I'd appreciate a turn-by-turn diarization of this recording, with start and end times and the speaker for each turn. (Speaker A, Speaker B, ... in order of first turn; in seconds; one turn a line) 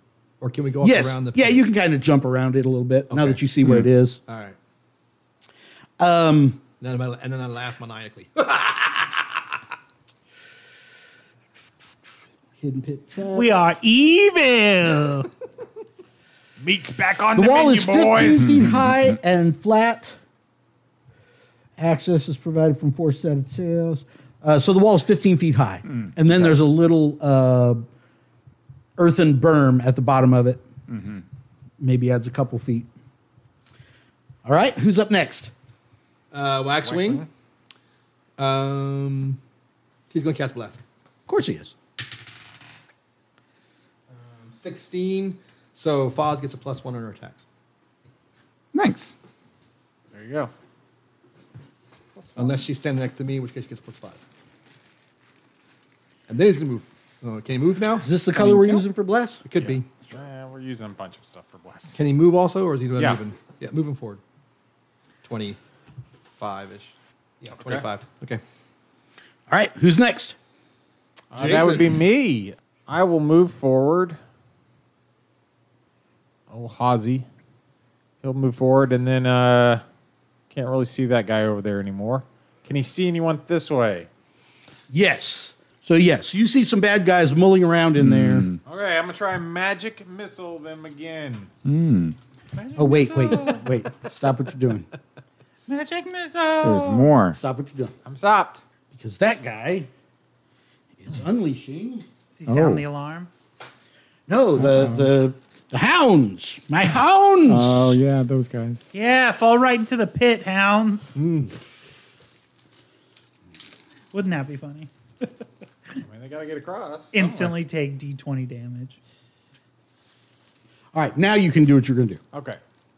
Speaker A: 0.4-1.6
Speaker B: 0.8-4.2
Speaker A: 3.1-3.5
Speaker A: 4.2-4.6
Speaker B: 6.0-6.6
Speaker A: 6.8-9.4
Speaker B: 12.6-13.5
Speaker C: 13.3-15.3
Speaker D: 16.6-18.6
Speaker B: 17.3-20.2
Speaker E: 18.4-18.9
Speaker B: 21.8-27.8
Speaker B: 29.0-30.6
Speaker E: 30.9-31.2
Speaker B: 31.8-32.9
Speaker B: 34.4-35.5
Speaker A: 36.3-37.2
Speaker D: 36.8-37.3
Speaker A: 38.4-39.4
Speaker A: 40.1-40.8
Speaker B: 41.3-41.8
Speaker A: 44.1-47.4
Speaker E: 48.7-49.1
Speaker D: 50.1-50.5
Speaker D: 52.2-52.6
Speaker A: 52.4-54.2
Speaker A: 56.3-58.1
Speaker B: 58.0-59.4
Speaker E: 58.4-58.8
Speaker A: 59.4-59.9
Speaker D: 59.6-62.0
Speaker A: 61.9-64.2
Speaker D: 63.0-63.2
Speaker A: 65.2-65.6
Speaker A: 66.3-68.4
Speaker D: 67.5-67.9
Speaker B: 69.5-70.4
Speaker D: 71.3-74.2
Speaker A: 71.3-72.0
Speaker D: 76.5-77.2
Speaker D: 78.2-79.8
Speaker D: 80.5-84.1
Speaker B: 84.9-88.5
Speaker E: 88.0-88.6
Speaker D: 88.7-91.5
Speaker E: 91.6-92.2
Speaker C: 92.5-93.7
Speaker B: 92.8-94.9
Speaker C: 95.7-97.1
Speaker E: 96.6-97.4
Speaker B: 97.4-97.9
Speaker D: 98.0-98.6
Speaker B: 98.9-99.9
Speaker B: 101.0-102.0
Speaker C: 102.3-103.3
Speaker E: 102.5-102.8
Speaker B: 104.3-108.0
Speaker E: 104.7-105.0
Speaker E: 107.5-108.9
Speaker C: 108.9-111.1
Speaker A: 111.2-111.5
Speaker C: 114.1-116.0
Speaker D: 116.0-117.5
Speaker C: 117.1-119.0
Speaker B: 120.9-122.2
Speaker D: 122.3-122.6